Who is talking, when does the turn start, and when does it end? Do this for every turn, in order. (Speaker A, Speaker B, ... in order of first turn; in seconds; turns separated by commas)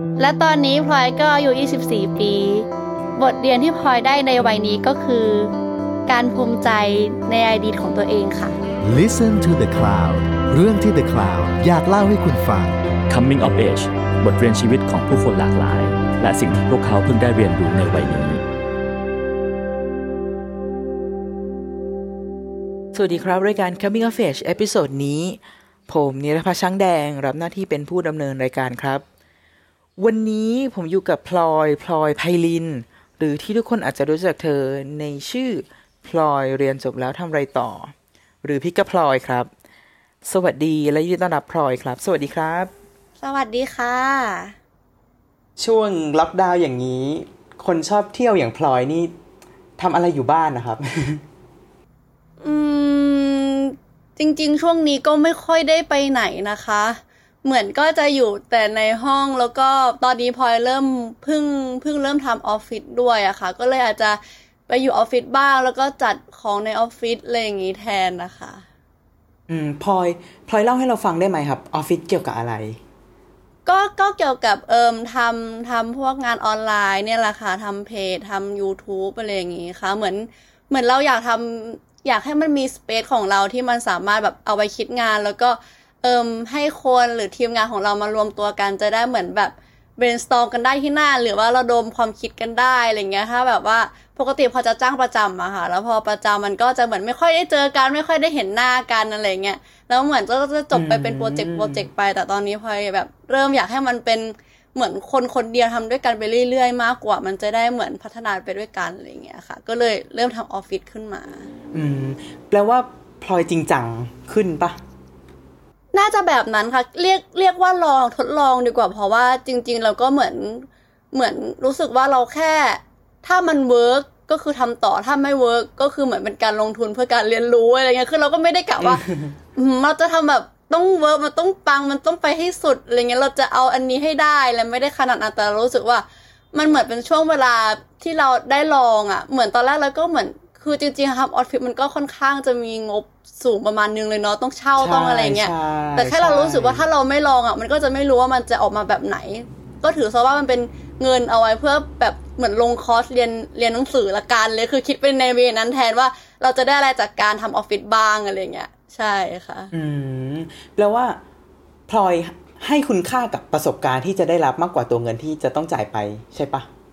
Speaker A: 0.2-5.5, Speaker A: 6.1-8.6, Speaker B: 8.8-12.8, Speaker C: 13.1-18.4, Speaker D: 22.9-25.4, Speaker D: 25.9-29.0, Speaker D: 30.0-37.9, Speaker D: 38.4-39.5, Speaker D: 40.2-42.7, Speaker A: 43.2-44.5, Speaker D: 45.6-49.1, Speaker D: 49.8-51.2, Speaker A: 52.4-68.6, Speaker D: 69.5-72.8, Speaker A: 73.6-111.5, Speaker D: 100.7-101.8, Speaker D: 111.7-114.8, Speaker A: 115.9-129.0, Speaker D: 128.8-129.3, Speaker A: 129.6-159.7, Speaker D: 144.8-146.8, Speaker D: 159.7-161.2, Speaker D: 161.9-166.7